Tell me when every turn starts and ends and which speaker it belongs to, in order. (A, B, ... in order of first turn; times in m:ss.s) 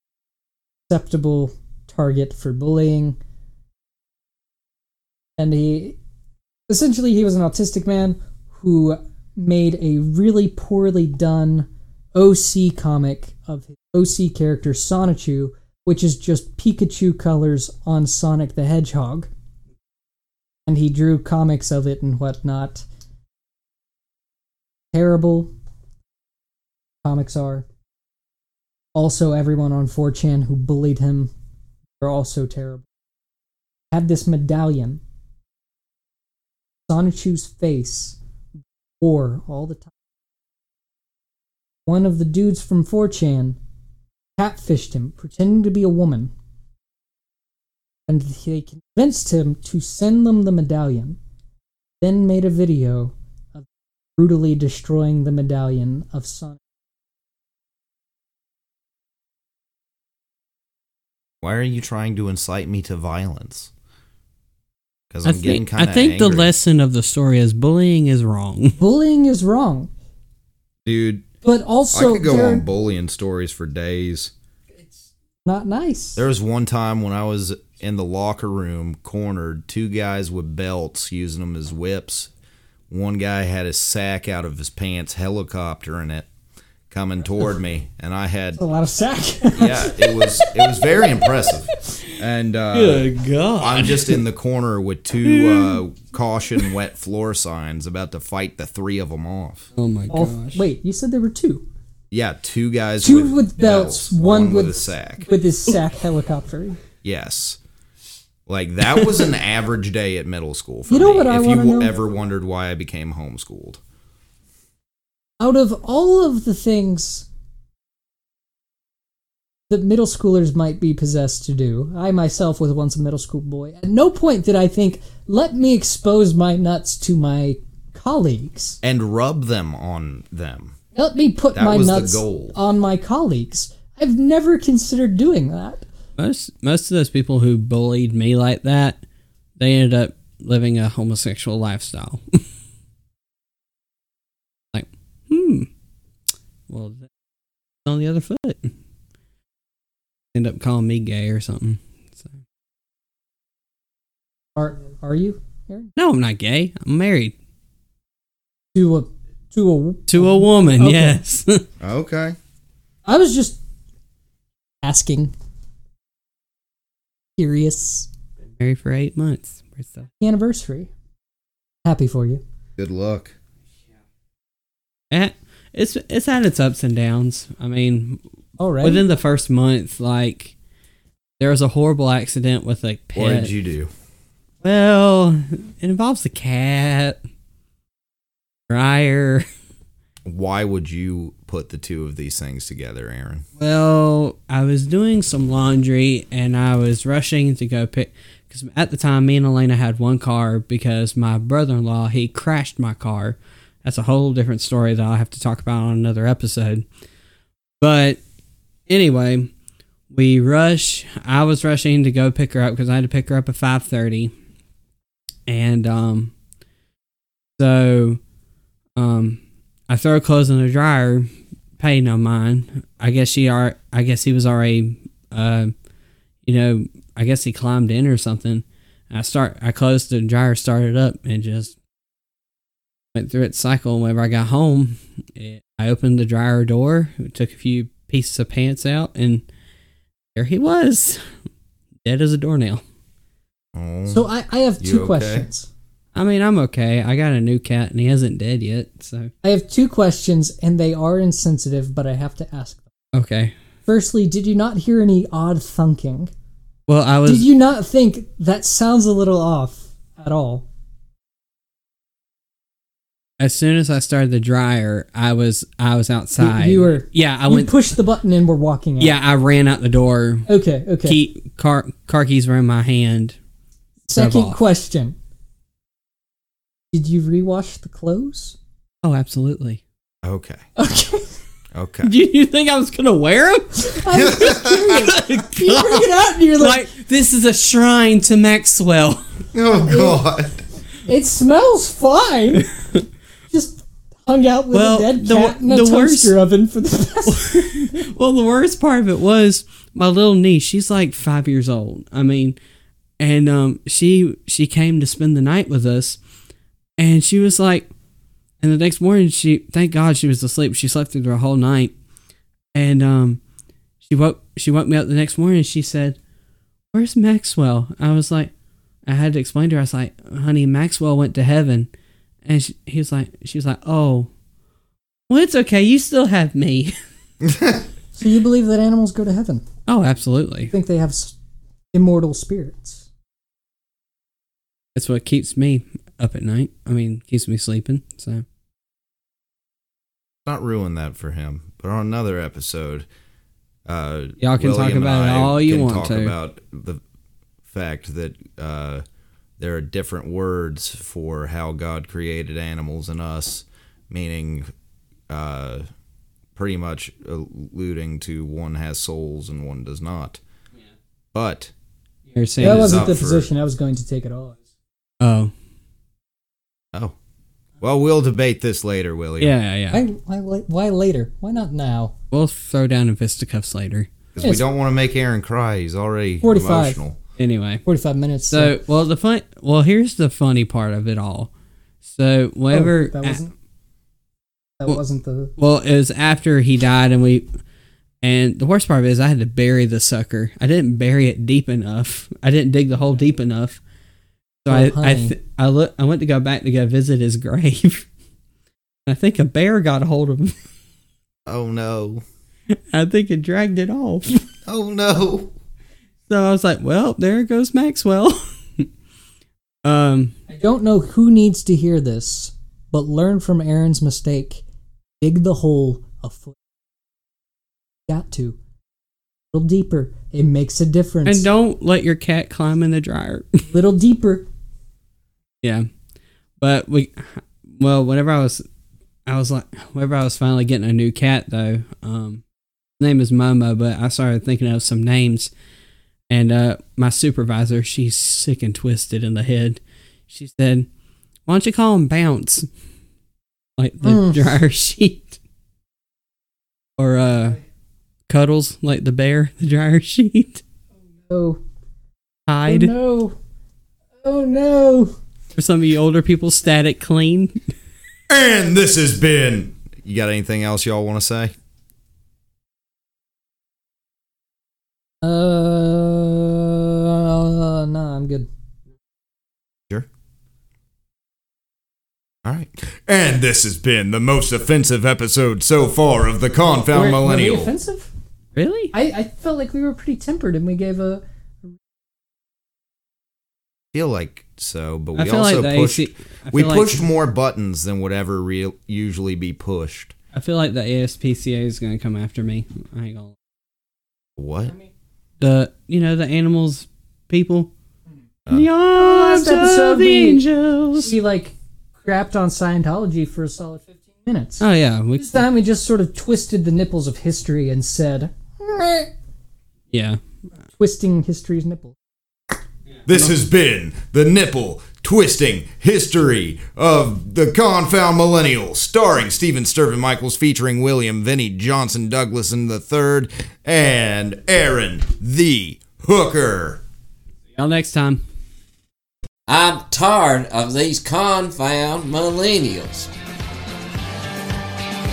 0:00.9-0:03.2 A
0:05.4-0:06.0 A
0:06.7-0:19.3 A
0:20.7-0:22.8 A
0:24.9-0:25.5 A
0:27.0-0:27.6 A
0:28.9-0:31.3 A
0:32.0-0:32.8 A
0:33.9-0:35.0 A
0:36.9-0:38.2 A
0:39.0-0:39.9 A
0:41.8-0:43.6 A
0:44.4-0:46.3 A
0:48.1-0:51.2 A
0:52.0-0:56.6 A
1:01.4-1:03.7 B
1:05.1-1:06.5 B
1:05.2-1:08.8 C
1:08.8-1:09.9 A
1:10.8-1:11.3 B
1:11.4-1:12.6 A
1:11.9-1:14.3 B
1:15.4-1:16.2 A
1:16.2-1:22.3 B
1:22.9-1:26.3 B
1:26.9-1:28.6 B
1:28.6-1:31.0 A
1:29.5-1:39.7 B
1:32.7-1:34.2 C
1:35.2-1:35.8 C
1:39.7-1:40.6 C
1:40.1-1:41.6 A
1:42.1-1:45.3 B
1:43.0-1:46.8 A
1:47.0-1:47.6 B
1:48.5-1:53.8 B
1:50.9-1:51.9 A
1:55.4-1:57.2 A
1:59.7-2:08.8 A
2:08.8-2:10.8 B
2:10.9-2:15.8 A
2:11.5-2:12.6 B
2:16.2-2:19.0 C
2:19.6-2:22.4 C
2:24.7-2:25.7 C
2:26.7-2:27.1 C
2:27.8-2:28.7 C
2:30.3-2:32.4 C
2:34.6-2:35.9 A
2:36.0-2:37.3 C
2:38.7-2:41.2 A
2:40.1-2:41.6 C
2:41.8-2:42.4 B
2:43.0-2:43.6 A
2:44.8-2:45.3 A
2:47.4-2:48.1 A
2:48.6-2:50.1 C
2:50.2-2:50.9 A
2:51.8-2:52.4 A
2:52.8-2:53.3 B
2:55.1-2:58.2 C
2:58.6-2:59.0 A
2:58.8-3:00.5 C
3:01.4-3:03.5 C
3:03.2-3:03.9 B
3:04.6-3:07.2 C
3:08.7-3:09.5 C
3:10.2-3:13.4 B
3:13.6-3:26.8 C
3:27.8-3:28.2 C
3:28.9-3:29.5 C
3:30.1-3:34.3 C
3:35.5-3:36.3 C
3:37.6-3:38.2 C
3:39.0-3:45.7 C
3:46.4-3:51.7 C
3:53.1-3:59.4 C
4:00.3-4:01.2 C
4:02.0-4:02.8 C
4:03.7-4:04.2 B
4:04.1-4:05.7 A
4:04.8-4:05.5 B
4:06.1-4:09.3 C
4:09.4-4:12.8 A
4:13.1-4:13.6 C
4:13.8-4:16.3 A
4:16.9-4:17.5 C
4:17.2-4:20.6 A
4:23.4-4:27.7 C
4:26.4-4:29.2 A
4:29.0-4:30.5 C
4:30.5-4:31.2 A
4:31.0-4:33.4 C
4:34.1-4:35.2 A
4:34.1-4:34.6 C
4:36.9-4:38.6 A
4:39.0-4:39.8 C
4:40.2-4:40.6 B
4:40.8-4:41.3 A
4:41.7-4:42.1 B
4:42.0-4:44.3 C
4:43.8-4:46.8 A
4:44.1-4:45.0 B
4:45.0-4:46.0 C
4:46.6-4:49.2 C
4:49.5-4:50.6 B
4:49.8-4:50.2 A
4:51.0-4:52.7 A
4:53.5-4:58.1 A
4:54.7-4:56.3 C
4:57.2-5:02.6 C
5:03.2-5:06.2 C
5:07.0-5:07.9 C
5:08.6-5:11.9 C
5:12.7-5:13.4 C
5:14.0-5:16.2 C
5:16.9-5:18.5 C
5:19.1-5:21.9 C
5:22.4-5:24.3 C
5:25.3-5:27.0 C
5:27.4-5:27.8 B
5:28.1-5:29.6 A
5:29.9-5:30.7 C
5:30.7-5:31.3 A
5:31.9-5:33.0 A
5:34.9-5:38.4 C
5:40.4-5:43.0 B
5:43.9-5:47.0 B
5:44.4-5:46.3 C
5:47.7-5:49.0 B
5:49.6-5:54.7 B
5:55.3-5:55.8 B
5:56.6-6:00.4 B
6:01.3-6:01.7 B
6:02.3-6:03.2 C
6:02.6-6:03.5 B
6:02.6-6:04.6 A
6:05.2-6:05.5 C
6:07.8-6:09.5 B
6:09.4-6:10.0 C
6:09.9-6:12.1 A
6:12.3-6:14.1 C
6:14.4-6:17.2 B
6:16.4-6:17.0 A
6:17.4-6:17.8 C
6:17.8-6:18.7 A
6:18.5-6:21.5 C
6:22.0-6:23.4 C
6:22.7-6:23.5 A
6:24.8-6:25.5 A
6:25.6-6:27.5 C
6:28.2-6:33.8 C
6:34.6-6:38.0 C
6:34.7-6:35.4 A
6:39.1-6:40.5 C
6:41.5-6:42.2 B
6:42.7-6:44.4 C
6:44.7-6:45.5 B
6:46.3-6:48.9 C
6:49.8-6:50.3 C
6:50.5-6:54.6 A
6:55.2-6:56.6 A
6:58.1-6:58.6 A
6:59.5-7:01.5 A
7:01.2-7:03.6 C
7:03.7-7:04.5 A
7:05.6-7:05.9 C
7:06.6-7:08.6 C
7:09.2-7:12.4 C
7:13.0-7:15.5 C
7:16.3-7:20.9 C
7:21.5-7:22.7 C
7:23.8-7:25.4 C
7:24.0-7:24.4 A
7:27.0-7:27.6 C
7:28.3-7:30.6 C
7:31.3-7:31.6 A
7:32.5-7:32.9 C
7:32.6-7:33.4 A
7:34.2-7:35.2 A
7:35.5-7:37.7 C
7:38.3-7:41.5 B
7:45.2-7:48.5 A
7:52.4-7:57.7 B
7:56.9-7:58.1 A
7:58.5-7:58.9 C
7:58.9-8:01.7 A
8:03.9-8:10.1 B
8:05.2-8:07.0 C
8:10.3-8:13.3 C
8:14.4-8:14.7 B
8:15.4-8:17.7 C
8:18.5-8:21.1 C
8:18.9-8:20.4 A
8:21.0-8:29.1 A
8:24.6-8:25.4 C
8:29.9-8:30.2 C
8:30.8-8:32.0 A
8:33.1-8:33.3 C
8:33.1-8:46.8 B
8:47.5-8:48.2 C
8:49.5-8:53.1 D